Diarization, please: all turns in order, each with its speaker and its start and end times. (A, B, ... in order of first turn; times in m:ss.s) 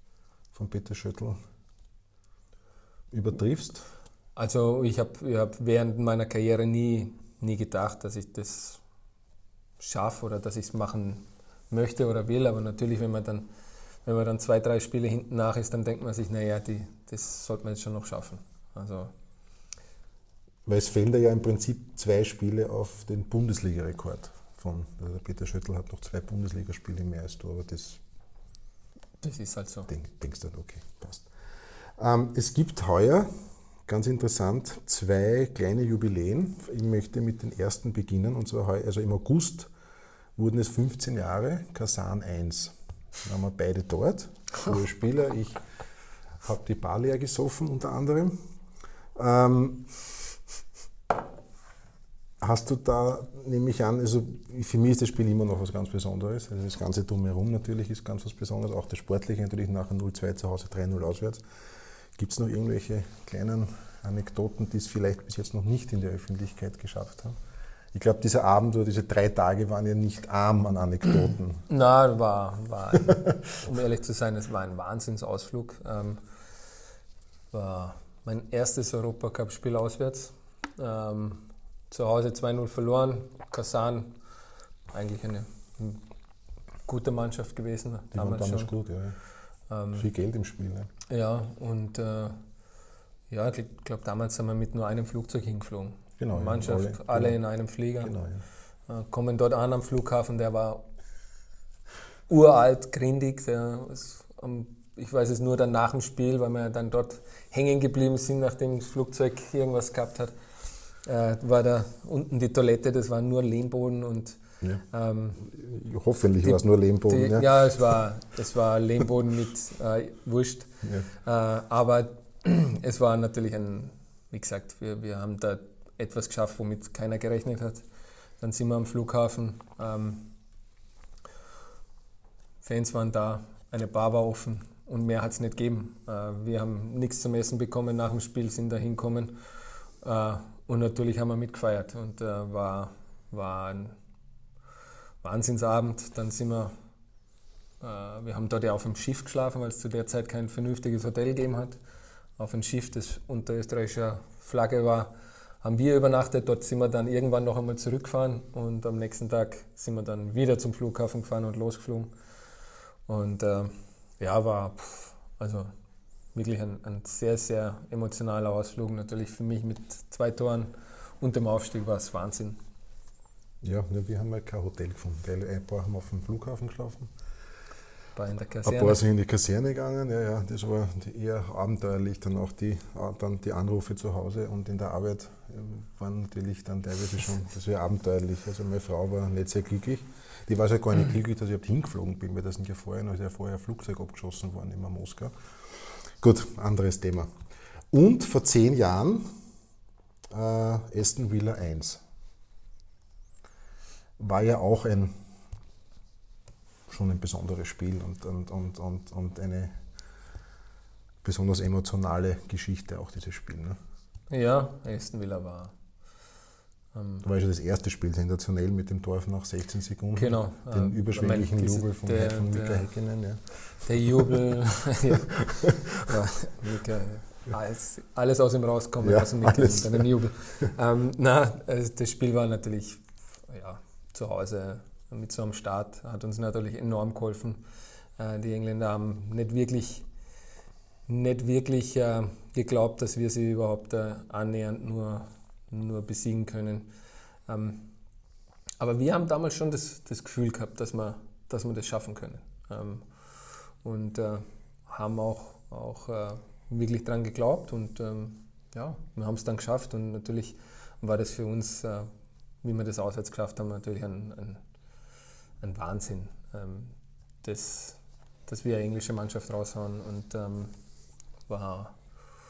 0:00.5-0:01.4 A
0:03.1-0:03.9 A
0:04.4-0:08.8 B
0:09.8-0:13.5 B
0:14.0-0:19.1 B
0:20.7-0:28.0 A
0:29.2-0:29.9 B
0:29.9-0:31.3 A
0:32.0-0:33.3 A
0:33.9-0:39.7 A
0:40.4-0:45.6 A
0:46.4-0:48.4 A
0:49.2-0:50.2 A
0:52.4-1:01.4 A
1:02.2-1:07.4 A
1:07.9-1:11.7 A
1:11.7-1:16.2 B
1:13.1-1:13.3 A
1:17.5-1:24.2 B
1:24.9-1:26.0 B
1:26.9-1:28.7 B
1:28.1-1:29.2 A
1:29.7-1:30.1 B
1:29.9-1:30.9 A
1:31.1-1:32.4 B
1:33.3-1:38.1 B
1:36.2-1:37.4 A
1:38.0-1:38.4 A
1:38.9-1:40.8 B
1:42.3-1:50.3 B
1:51.0-1:54.4 B
1:54.9-1:55.4 B
1:55.4-1:57.6 A
1:56.4-2:07.8 B
2:08.4-2:10.3 B
2:12.6-2:19.4 B
2:20.0-2:24.0 B
2:25.2-2:26.7 B
2:27.8-2:31.8 B
2:32.4-2:42.1 B
2:43.1-2:45.7 B
2:46.4-2:52.6 B
2:53.6-2:57.1 A
2:58.2-2:59.0 B
2:58.6-3:17.3 A
3:17.9-3:19.3 A
3:20.3-3:22.0 A
3:24.2-3:25.1 A
3:26.9-3:29.7 A
3:31.2-3:33.8 A
3:34.3-3:35.7 B
3:36.9-3:37.2 B
3:37.2-3:43.4 A
3:40.2-3:42.9 B
3:43.8-3:57.6 B
3:45.1-3:46.1 A
3:49.0-3:50.1 A
3:58.2-4:00.0 B
4:01.1-4:06.9 B
4:07.5-4:07.9 B
4:08.8-4:22.1 B
4:22.6-4:24.6 B
4:25.6-4:30.8 B
4:31.5-4:32.0 B